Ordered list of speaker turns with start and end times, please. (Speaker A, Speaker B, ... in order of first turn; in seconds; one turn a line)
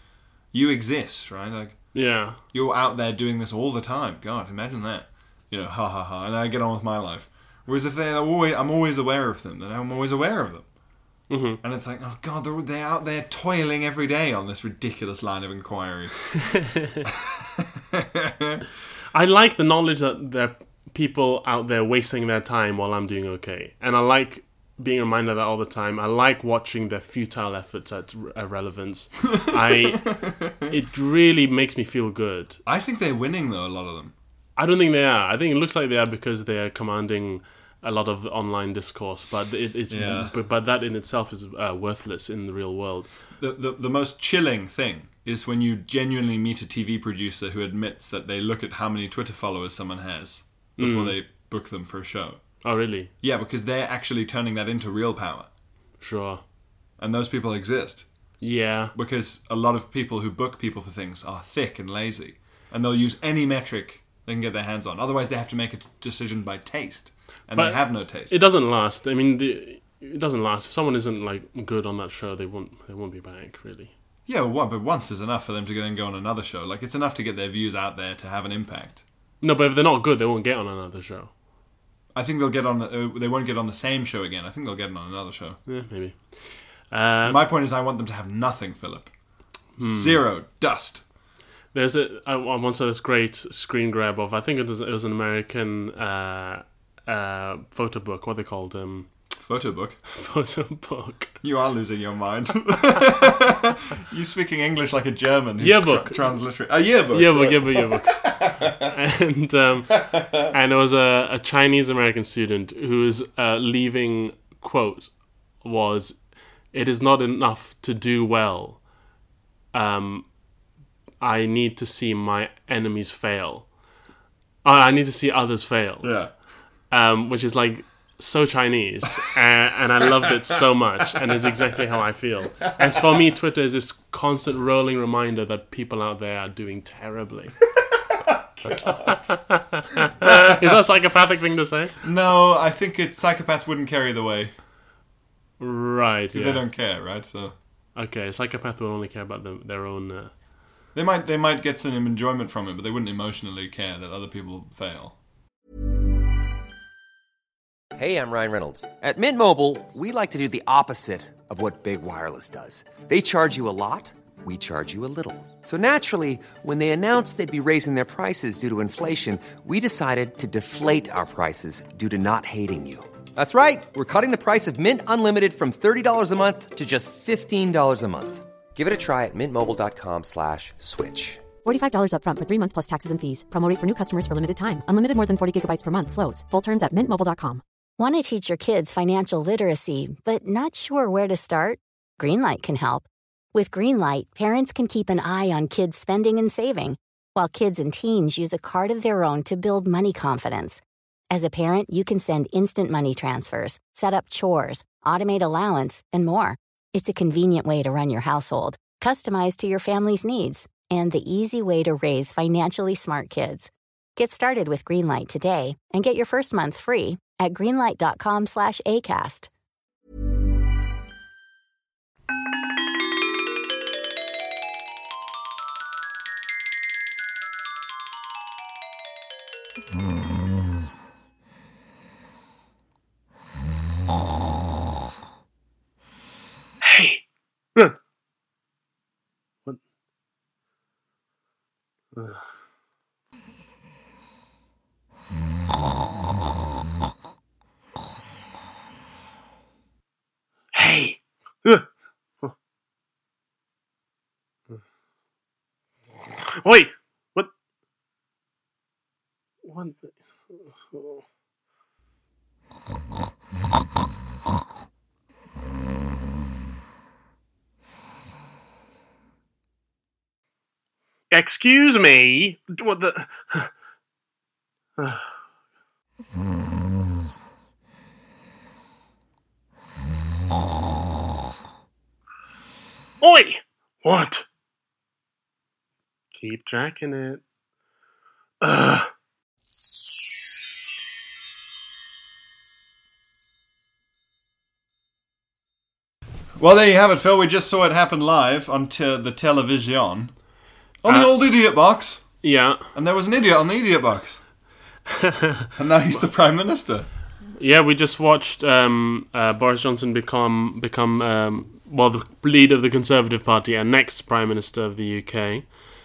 Speaker A: 0.5-1.9
Speaker B: 1.9-2.4
Speaker A: 2.5-10.7
Speaker B: 11.3-11.6
Speaker A: 11.6-16.2
Speaker B: 16.8-17.0
Speaker A: 17.1-18.6
Speaker B: 19.1-32.6
Speaker A: 29.3-30.7
Speaker A: 32.6-34.1
Speaker B: 34.6-43.1
Speaker A: 39.9-40.3
Speaker A: 43.4-52.4
Speaker B: 50.8-51.1
Speaker B: 52.6-53.1
Speaker A: 53.2-55.5
Speaker B: 56.0-56.4
Speaker A: 57.0-58.0
Speaker B: 58.4-58.9
Speaker A: 58.9-68.3
Speaker B: 67.5-73.9
Speaker A: 74.2-79.0
Speaker B: 79.4-81.3
Speaker A: 82.1-85.6
Speaker B: 85.7-87.4
Speaker A: 87.2-89.1
Speaker B: 89.8-90.2
Speaker A: 89.8-91.0
Speaker B: 91.7-99.1
Speaker A: 99.3-100.0
Speaker B: 100.1-101.3
Speaker A: 101.4-108.9
Speaker B: 105.6-106.3
Speaker B: 107.1-115.1
Speaker A: 110.0-110.5
Speaker B: 115.6-118.8
Speaker B: 119.7-120.3
Speaker B: 121.2-123.7
Speaker B: 124.6-126.1
Speaker A: 126.0-126.3
Speaker B: 126.9-137.6
Speaker A: 132.6-133.0
Speaker A: 138.1-139.3
Speaker B: 138.8-141.9
Speaker A: 140.2-140.7
Speaker A: 142.0-144.5
Speaker B: 145.6-146.6
Speaker A: 146.3-147.5
Speaker B: 147.9-150.3
Speaker A: 150.9-155.1
Speaker C: 157.9-181.4
Speaker D: 181.6-187.6
Speaker E: 188.0-219.5
Speaker B: 236.8-237.2
Speaker B: 242.1-242.4
Speaker B: 250.7-251.8
Speaker B: 256.6-257.5
Speaker B: 259.6-260.1
Speaker B: 260.9-261.2
Speaker B: 271.3-273.7
Speaker B: 283.2-284.4
Speaker B: 286.3-287.4
Speaker B: 288.6-289.1
Speaker A: 296.6-300.3
Speaker A: 301.0-302.3
Speaker B: 301.1-301.3
Speaker B: 302.4-302.9
Speaker A: 302.9-304.4
Speaker B: 305.1-305.7
Speaker A: 305.8-307.1
Speaker B: 307.6-315.7